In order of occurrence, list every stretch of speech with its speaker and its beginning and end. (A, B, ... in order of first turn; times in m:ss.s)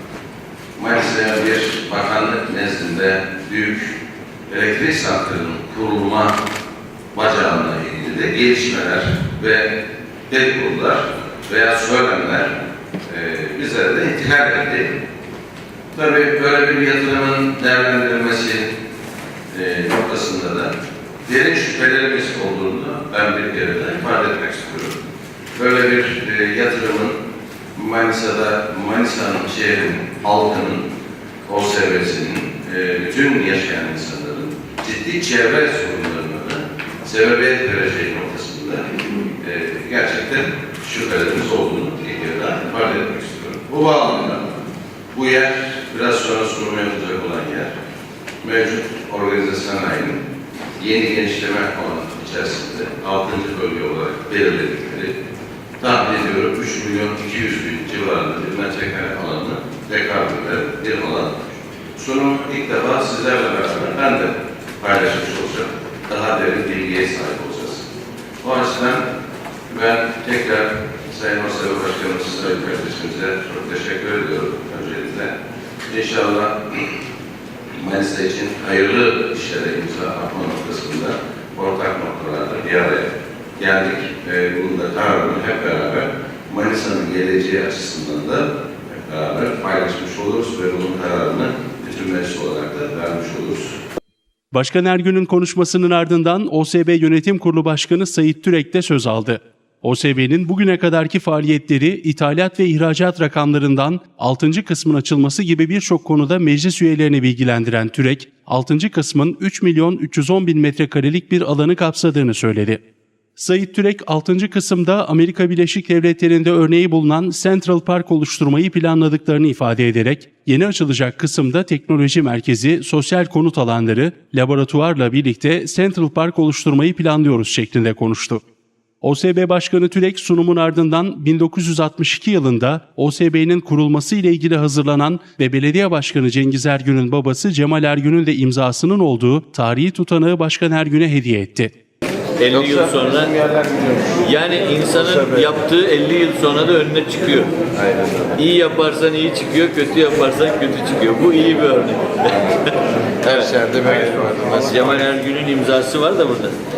0:00.8-0:04.0 A
0:04.5-0:06.3 A
0:07.1-0:09.7 A
0:10.3-0:12.5 A
0:13.1-0:14.9 A
0:15.9-0:18.7 A
0:19.5-0:20.7 A
0:21.2-0:25.0 A
0:25.6-0:27.2 A
0:27.8-0:30.9 A
0:31.5-0:44.5 A
0:45.1-0:47.7 A
0:48.4-0:50.2 A
0:50.8-0:55.1 A
0:55.8-1:01.4 A
1:02.0-1:07.9 A
1:08.4-1:09.0 A
1:09.7-1:15.3 A
1:15.9-1:16.8 A
1:17.7-1:33.8 A
1:34.5-1:52.8 B
1:53.4-2:08.4 B
2:09.0-2:21.7 B
2:22.4-2:23.3 C
2:22.5-2:24.2 A
2:24.2-2:27.5 C
2:27.8-2:28.3 A
2:28.4-2:34.0 C
2:33.3-2:34.8 A
2:34.6-2:36.6 C